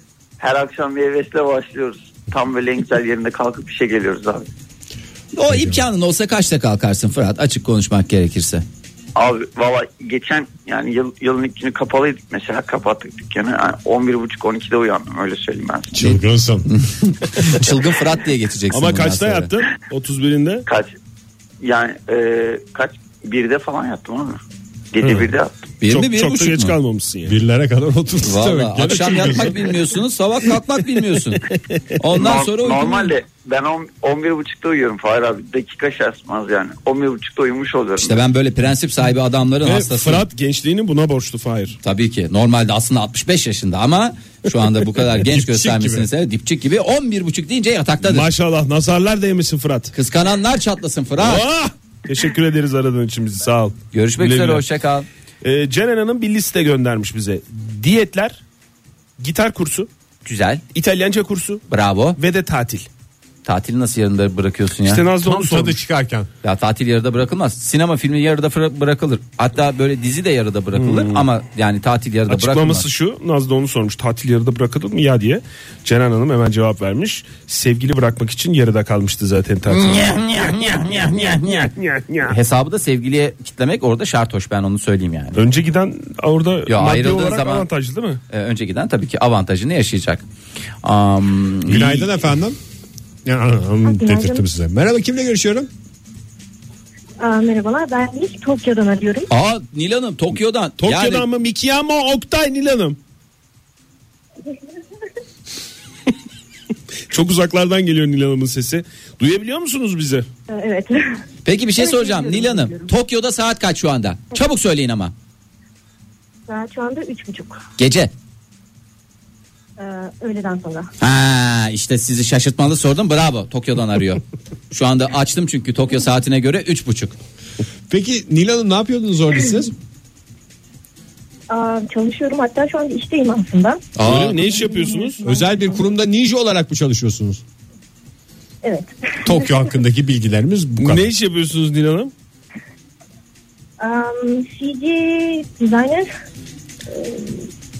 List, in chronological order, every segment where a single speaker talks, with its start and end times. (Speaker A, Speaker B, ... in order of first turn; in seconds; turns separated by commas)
Speaker A: 0.4-4.5, Speaker B: 5.3-8.7, Speaker C: 5.5-5.8, Speaker A: 9.2-16.0, Speaker C: 15.9-16.7, Speaker B: 16.7-19.5, Speaker D: 18.7-20.7, Speaker A: 20.7-20.9, Speaker A: 21.6-24.4, Speaker A: 24.9-25.5, Speaker B: 25.8-26.8, Speaker D: 25.9-27.4, Speaker C: 27.3-29.8, Speaker B: 28.2-33.1, Speaker A: 32.1-38.2, Speaker B: 38.0-40.3, Speaker D: 39.6-41.8, Speaker B: 41.8-48.3, Speaker C: 45.2-46.1, Speaker D: 48.0-49.9, Speaker B: 49.9-51.5, Speaker D: 51.2-54.6, Speaker B: 53.9-55.1, Speaker D: 55.4-58.4, Speaker D: 59.2-59.9, Speaker B: 60.2-60.6, Speaker D: 60.7-61.6, Speaker B: 61.7-62.2, Speaker D: 62.2-62.9, Speaker B: 63.5-65.0, Speaker D: 64.8-65.8, Speaker C: 65.2-66.3, Speaker B: 66.4-72.9, Speaker D: 70.8-71.3, Speaker D: 72.3-80.1, Speaker B: 79.7-81.7, Speaker D: 81.7-82.4, Speaker B: 82.3-85.4, Speaker D: 85.3-88.2, Speaker B: 86.7-87.7, Speaker B: 88.3-90.2, Speaker B: 90.8-92.1, Speaker C: 91.7-92.6, Speaker C: 93.2-95.7, Speaker E: 93.9-94.4, Speaker E: 97.2-99.3, Speaker B: 99.3-101.3, Speaker D: 100.8-103.0, Speaker D: 107.1-110.3, Speaker E: 110.5-111.0, Speaker B: 111.5-115.1, Speaker E: 111.8-112.9, Speaker E: 116.5-117.6, Speaker B: 117.8-118.1, Speaker E: 119.8-120.9, Speaker B: 121.0-127.2, Speaker C: 127.9-129.7, Speaker E: 131.5-135.8, Speaker B: 134.0-134.4, Speaker D: 134.0-135.2, Speaker C: 135.2-137.4, Speaker C: 139.2-141.1, Speaker D: 140.8-142.1, Speaker E: 143.8-146.1, Speaker E: 146.9-147.4